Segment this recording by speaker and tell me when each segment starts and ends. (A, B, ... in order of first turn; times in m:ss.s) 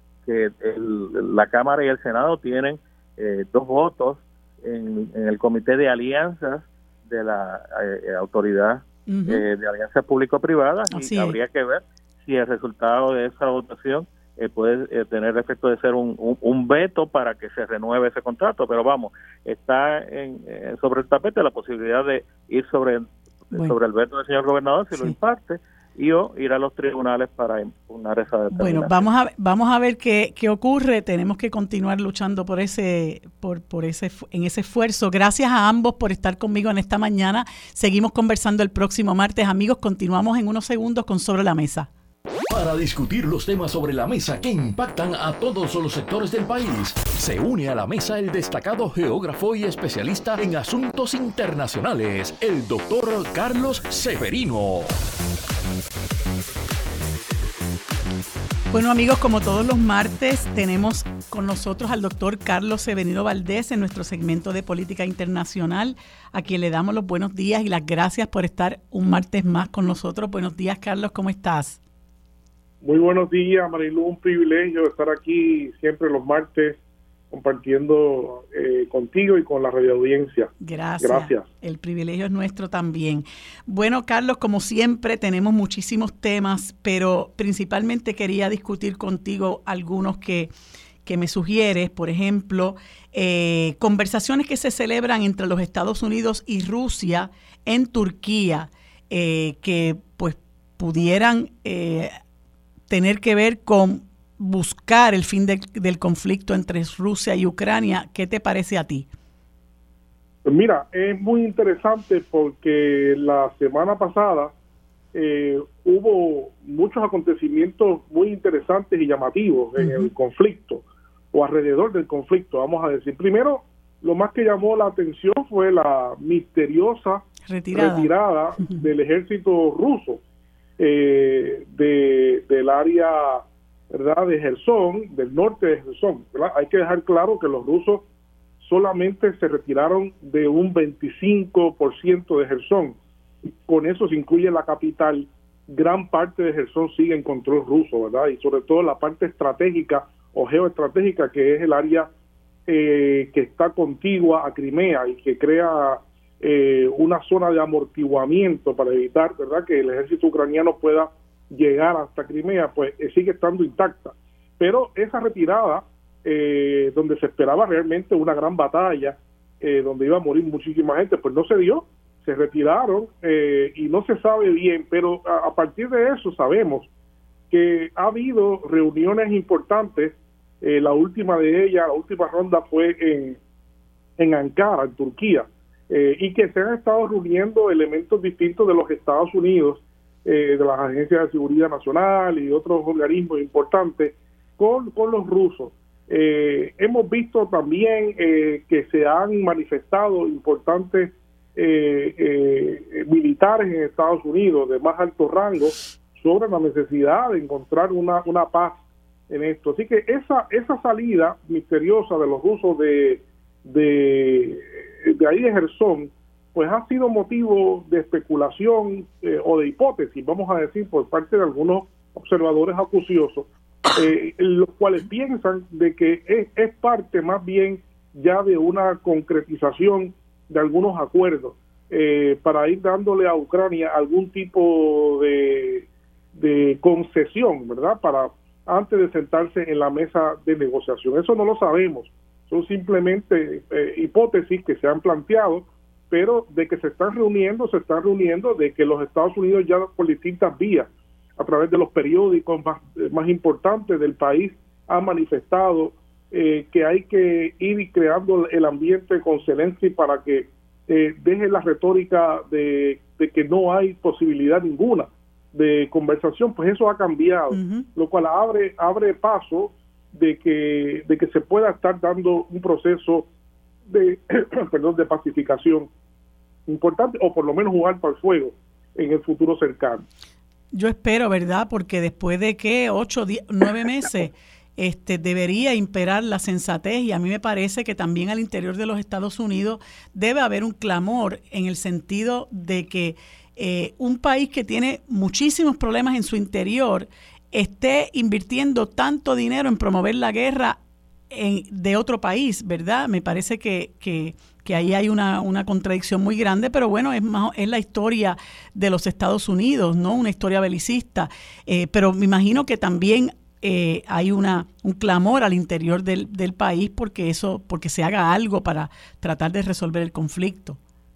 0:00.2-0:29.1 A
0:09.1-0:09.4 B
0:10.9-0:11.4 B
0:28.5-0:41.9 B
0:42.5-0:54.9 C
0:58.7-1:11.8 B
1:12.8-1:16.8 D
1:17.3-1:20.5 D
1:20.6-1:30.5 B
1:21.0-1:21.5 D
1:31.0-1:42.1 B
1:42.9-1:49.1 B
1:50.4-1:54.5 D
1:55.1-2:10.2 D
1:59.8-2:00.1 B
2:07.4-2:08.8 B
2:10.8-2:18.0 D
2:18.6-2:32.1 D
2:32.7-2:56.9 D
2:57.5-3:03.4 D
3:04.2-4:33.2 D
4:27.5-4:27.8 B
4:33.9-4:35.9 D
4:36.7-4:40.0 D
4:40.7-5:00.8 B
5:01.3-5:20.8 B